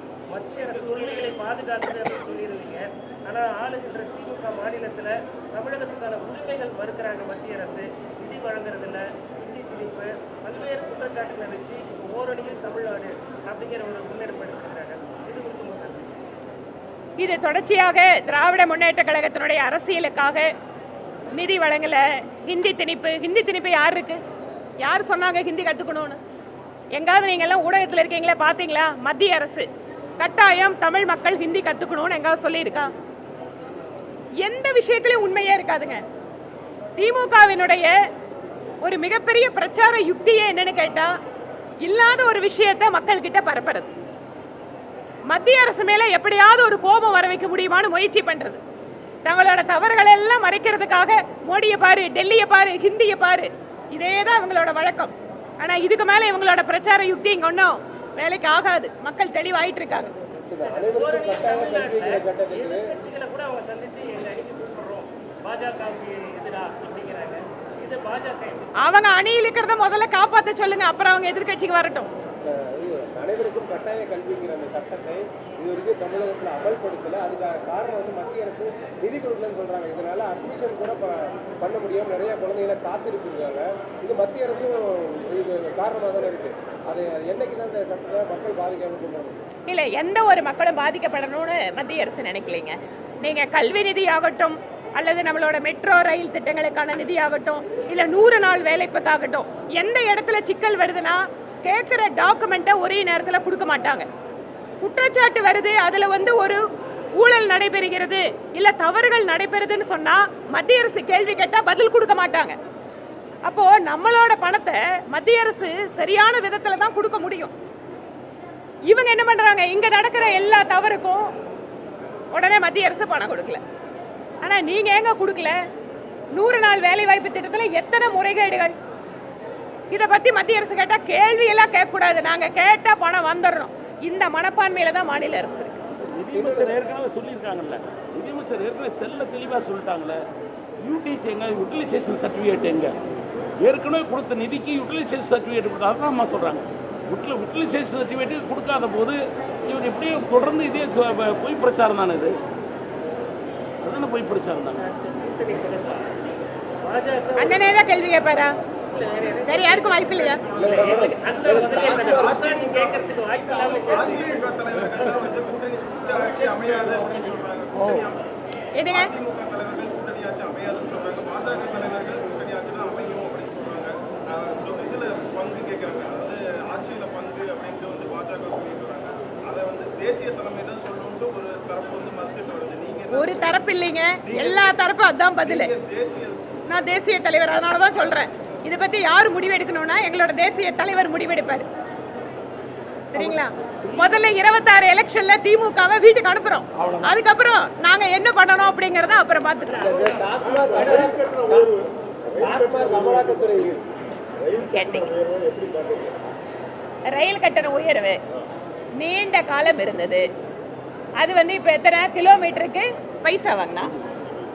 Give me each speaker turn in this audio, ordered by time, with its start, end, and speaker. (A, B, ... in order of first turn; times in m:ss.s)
0:00.3-0:16.2 A
0:00.5-0:01.4 B
0:17.2-0:20.5 C
0:21.4-0:24.2 C
0:24.8-0:26.2 C
0:26.9-0:29.7 C
0:30.2-0:32.9 C
0:34.4-0:36.0 C
0:37.0-0:37.9 C
0:38.8-0:41.1 C
0:41.8-0:43.9 C
0:45.3-0:48.6 C
0:49.2-1:00.1 C
1:00.4-1:02.9 D
1:00.6-1:08.8 A
1:08.8-1:12.1 C
1:12.4-1:29.4 D
1:29.7-1:44.1 C
1:44.8-1:46.6 C
1:47.2-1:52.6 C
1:53.5-1:57.5 C
1:58.9-2:01.3 C
2:02.3-2:03.6 C
2:04.4-2:05.6 C
2:06.3-2:08.8 C
2:09.9-2:15.8 C
2:16.0-2:20.2 B
2:16.3-2:16.9 D
2:20.8-2:23.0 B
2:23.6-2:32.3 B
2:33.8-2:34.9 B
2:34.8-2:36.2 A
2:36.8-2:37.7 A
2:37.4-2:38.5 C
2:38.9-2:44.5 A
2:39.4-2:40.4 C
2:40.4-2:48.2 E
2:40.5-2:42.5 D
2:46.3-2:48.1 B
2:48.8-2:49.1 C
2:48.9-3:03.6 E
3:03.1-3:05.7 C
3:04.2-3:04.8 E
3:05.4-3:06.4 E
3:06.7-3:11.7 C
3:13.1-3:19.9 C
3:13.2-3:14.2 B
3:16.8-3:17.2 B
3:19.7-3:21.6 A
3:19.8-3:21.7 D
3:22.4-3:23.8 D
3:22.6-3:22.8 A
3:24.6-3:25.1 C
3:25.2-3:26.2 D
3:27.1-3:28.2 C
3:29.0-3:30.3 C
3:31.2-3:33.9 C
3:33.8-3:34.3 B